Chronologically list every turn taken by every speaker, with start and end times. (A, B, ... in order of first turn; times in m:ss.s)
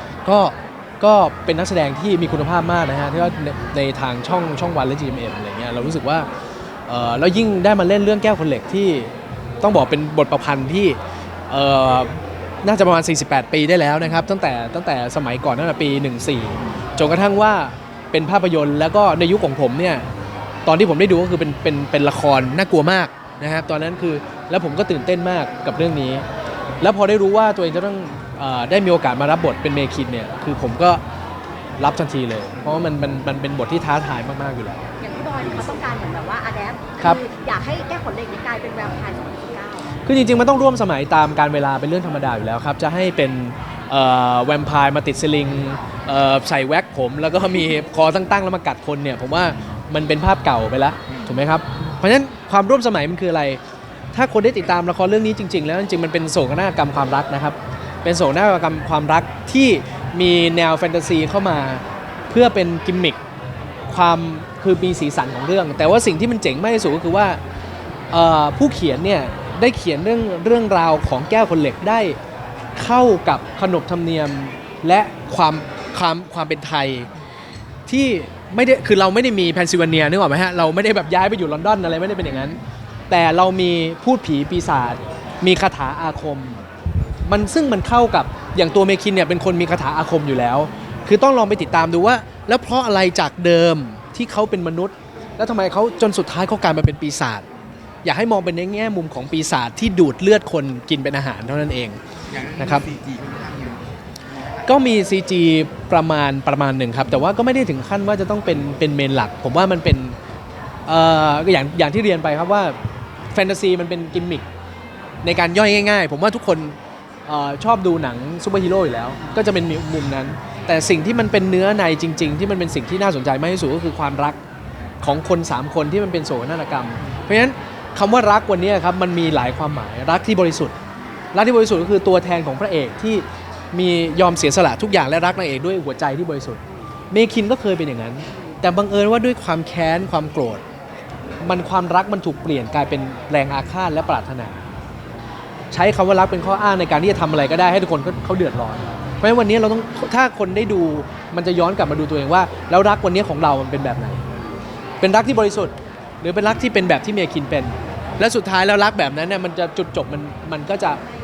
0:00.2-0:06.3 A
0:06.9-0:11.0 A
0:11.5-0:20.1 A
0:20.7-0:26.2 A
0:26.8-0:31.0 A
0:31.8-0:34.9 A
0:35.0-0:39.9 B
0:40.0-0:53.6 A
0:51.1-0:51.4 C
0:54.1-1:03.2 A
1:03.9-1:07.4 A
1:08.1-1:12.2 A
1:12.8-1:17.1 A
1:17.9-1:26.6 A
1:27.3-1:37.4 A
1:38.0-1:42.0 A
1:42.3-1:44.8 C
1:42.6-1:42.9 A
1:44.7-1:50.2 A
1:50.9-1:52.8 A
1:53.3-1:54.5 A
1:55.2-2:04.4 A
2:05.0-2:10.8 A
2:11.3-2:20.6 A
2:21.4-2:24.6 A
2:25.7-2:34.2 A
2:35.0-2:41.0 A